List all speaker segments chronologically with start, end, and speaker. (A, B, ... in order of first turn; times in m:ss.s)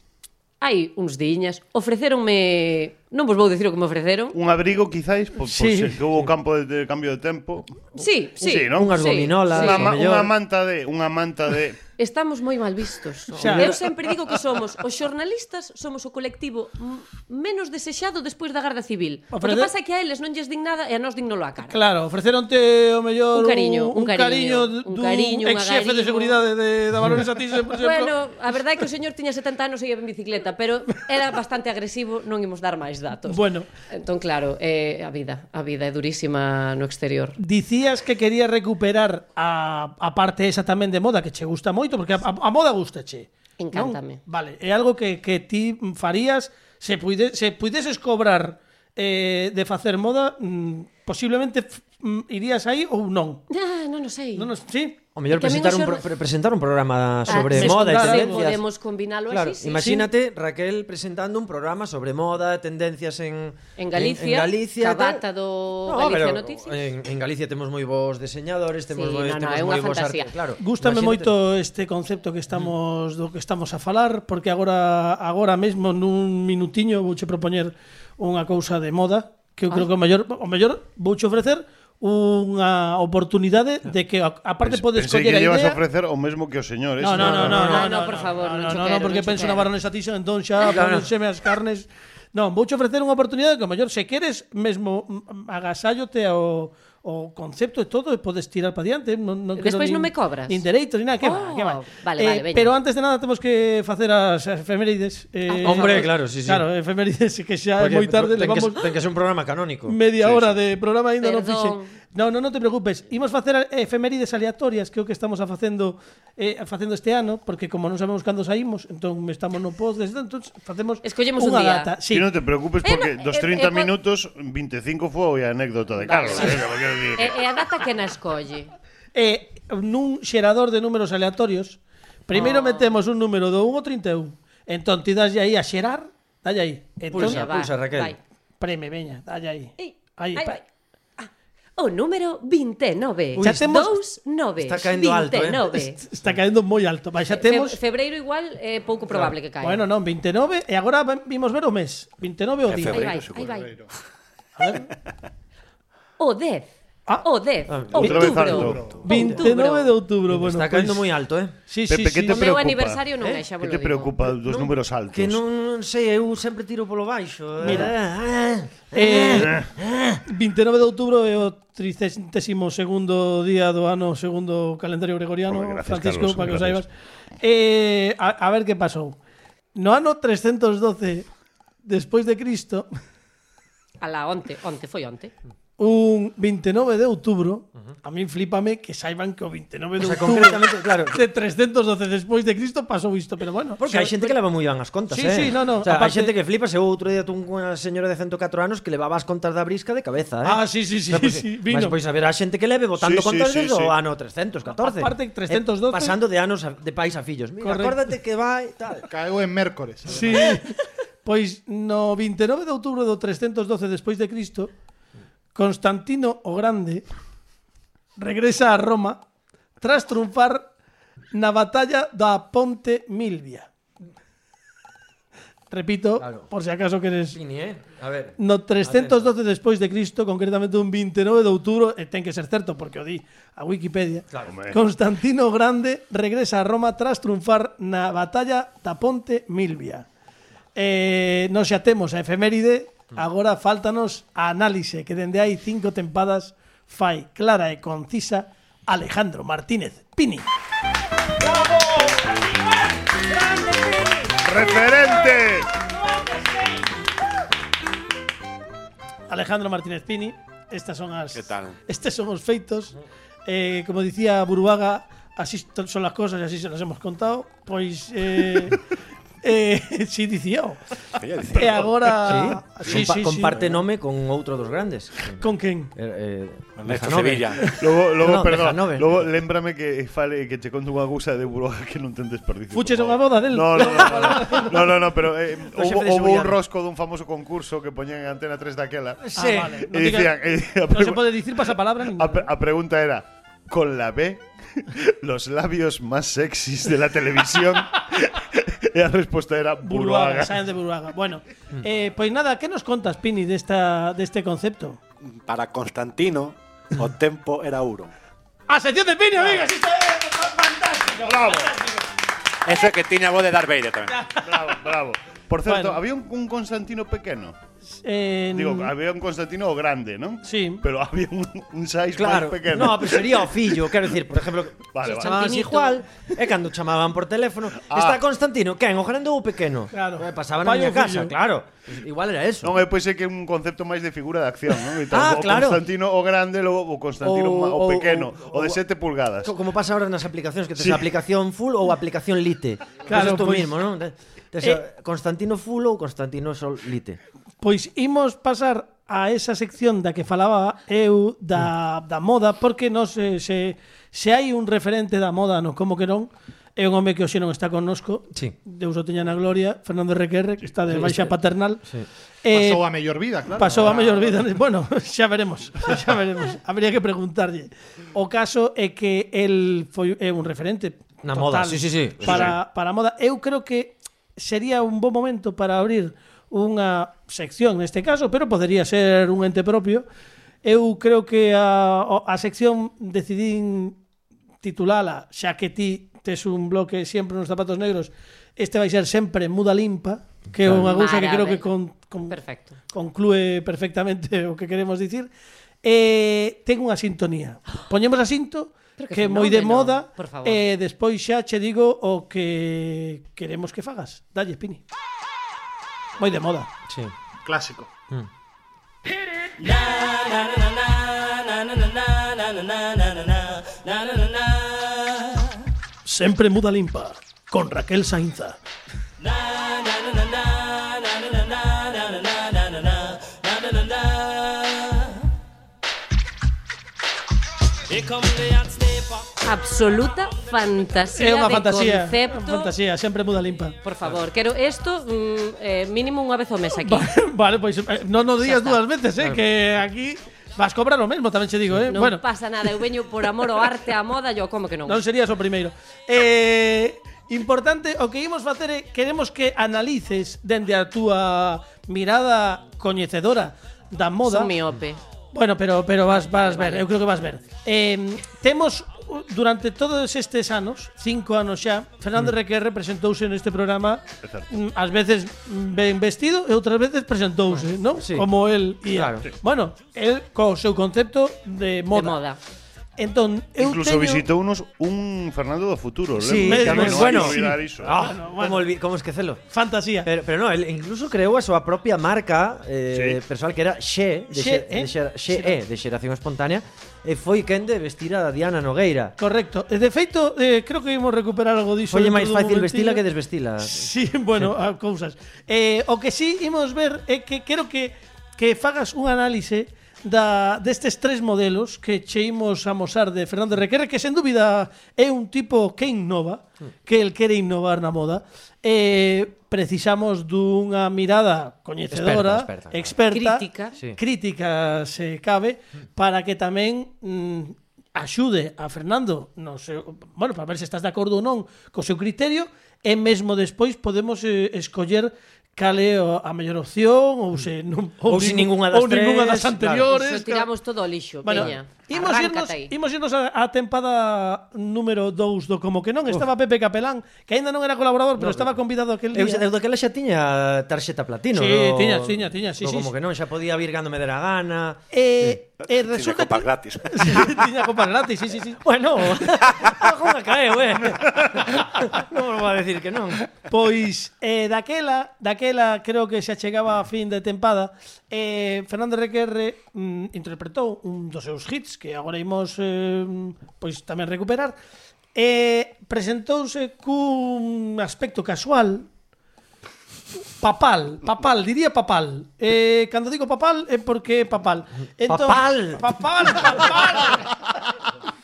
0:00.6-0:04.4 A
0:04.3-0:11.8 B
0:05.5-0:06.0 C
0:08.0-0:09.9 A
0:08.5-0:10.3 D
0:12.0-0:21.8 A
0:13.3-0:13.8 D
0:13.4-0:13.7 C
0:19.3-0:19.7 C
0:21.7-0:28.1 C
0:23.3-0:26.4 A
0:27.7-0:37.4 A
0:33.3-0:33.7 C
0:37.4-0:53.4 C
0:43.6-0:44.2 A
0:53.5-0:54.5 A
0:54.3-0:55.0 C
0:55.2-0:58.6 D
0:55.3-0:56.0 A
0:57.3-0:59.9 A
0:57.3-0:58.5 C
0:59.3-1:05.2 D
0:59.8-1:00.1 C
1:03.8-1:06.8 A
1:05.8-1:11.3 D
1:08.9-1:10.3 A
1:10.6-1:25.8 C
1:24.6-1:27.6 B
1:27.0-1:48.9 C
1:27.2-1:27.8 D
1:27.2-1:29.7 A
1:30.6-1:31.1 D
1:39.6-1:40.6 A
1:41.2-1:42.7 A
1:45.5-1:46.1 A
1:45.6-1:46.6 D
1:47.8-1:50.4 D
1:49.8-2:02.3 C
1:51.2-1:51.9 A
2:01.0-2:01.9 A
2:02.1-2:07.4 B
2:02.8-2:03.9 A
2:06.0-2:08.7 A
2:09.1-2:17.4 C
2:12.3-2:13.0 A
2:17.1-2:18.1 D
2:17.1-2:18.2 A
2:18.6-2:20.6 C
2:19.8-2:20.6 A
2:21.2-2:26.0 A
2:23.4-2:24.0 C
2:24.6-2:25.8 D
2:26.0-2:27.8 C
2:27.3-2:29.8 A
2:29.6-2:33.1 C
2:32.7-2:33.5 E
2:32.8-2:33.7 A
2:33.3-2:33.8 F
2:34.6-2:34.9 C
2:36.2-2:36.7 A
2:37.2-2:39.9 A
2:37.7-2:39.4 D
2:37.9-2:39.0 B
2:38.0-2:38.4 C
2:39.0-2:41.1 C
2:40.3-2:41.5 D
2:41.7-2:42.5 C
2:41.9-2:43.0 B
2:42.3-2:44.2 A
2:43.6-2:45.4 B
2:44.5-2:50.2 D
2:47.6-2:47.9 C
2:48.9-2:49.6 C
2:50.2-2:56.9 C
2:55.5-2:56.8 B
2:57.4-2:59.2 C
2:59.7-3:01.3 C
3:01.8-3:02.9 C
3:04.0-3:05.3 A
3:05.8-3:14.3 C
3:10.0-3:11.2 D
3:13.8-3:29.1 D
3:15.1-3:16.3 C
3:20.4-3:22.0 C
3:23.0-3:23.9 B
3:24.7-3:26.2 C
3:27.6-3:28.0 C
3:29.0-3:30.5 F
3:30.0-3:34.7 C
3:35.5-3:37.0 C
3:38.2-3:39.2 C
3:39.8-3:40.7 C
3:41.3-3:43.7 C
3:45.7-3:47.4 C
3:46.2-3:46.5 D
3:47.3-3:49.3 D
3:48.4-4:00.0 C
3:54.4-3:54.8 B
4:00.7-4:10.4 C
4:14.3-4:15.8 B
4:19.3-4:22.9 C
4:21.3-4:21.8 E
4:23.4-4:28.8 C
4:29.4-4:30.8 C
4:31.2-4:32.4 E
4:31.5-4:33.8 C
4:32.2-4:37.6 D
4:35.4-4:35.9 C
4:36.8-4:37.7 E
4:37.7-4:49.3 B
4:38.2-4:39.3 D
4:42.7-4:45.0 C
4:45.7-4:46.5 C
4:49.2-4:49.8 D
4:49.4-4:50.3 C
4:49.8-5:00.6 B
4:50.9-4:52.5 C
4:59.8-5:05.0 C
5:05.2-5:08.1 E
5:08.7-5:11.9 C
5:11.2-5:11.8 B
5:12.6-5:14.2 E
5:14.1-5:14.8 C
5:14.3-5:17.5 B
5:15.6-5:16.0 C
5:17.9-5:18.9 C
5:18.5-5:23.5 B
5:20.4-5:20.8 C
5:22.1-5:32.8 D
5:24.9-5:25.3 B
5:25.1-5:26.0 A
5:25.2-5:26.0 C
5:27.9-5:28.2 B
5:29.9-5:31.3 C
5:32.6-5:39.5 B
5:35.0-5:35.8 D
5:37.2-5:38.8 D
5:39.4-5:47.2 D
5:43.0-5:43.7 C
5:47.6-6:01.8 C
6:00.9-6:01.3 D
6:02.4-6:02.8 C
6:02.5-6:04.3 F
6:03.5-6:20.0 C
6:11.2-6:12.5 D
6:20.6-6:24.0 C
6:24.6-6:32.4 C
6:30.7-6:31.6 A
6:32.3-6:32.8 A
6:32.9-6:35.3 C
6:35.8-6:44.8 C
6:39.0-6:40.6 A
6:46.2-6:46.7 C
6:46.9-6:47.1 D
6:47.4-6:47.9 F
6:56.0-6:58.6 C
7:09.4-7:12.7 A
7:11.2-7:13.8 C
7:13.8-7:17.1 A
7:16.8-7:22.2 C
7:18.4-7:18.8 A
7:21.9-7:25.0 A
7:24.8-7:34.5 C
7:34.2-7:35.0 A
7:35.3-7:52.2 C
7:36.1-7:36.8 A
7:48.0-7:48.3 D
7:48.9-7:49.3 D
7:51.9-7:52.4 A
7:53.0-7:54.2 C
7:53.6-7:58.0 B
7:56.2-7:59.4 D
7:56.4-7:58.7 C
7:59.5-8:00.1 C
8:00.0-8:09.1 D
8:02.9-8:03.2 B
8:04.3-8:05.5 C
8:09.2-8:13.0 C
8:11.9-8:14.5 D
8:13.6-8:50.5 C
8:31.9-8:32.9 D
8:33.1-8:33.8 A
8:48.0-8:49.9 D
8:49.9-8:52.7 A
8:51.2-8:59.4 C
8:58.2-8:58.5 D
8:59.1-9:05.4 D
9:01.3-9:02.9 C
9:04.9-9:08.6 C
9:05.7-9:07.4 E
9:08.6-9:13.2 D
9:13.4-9:24.6 C
9:25.1-9:28.9 C
9:30.4-9:37.4 C
9:35.0-9:36.6 D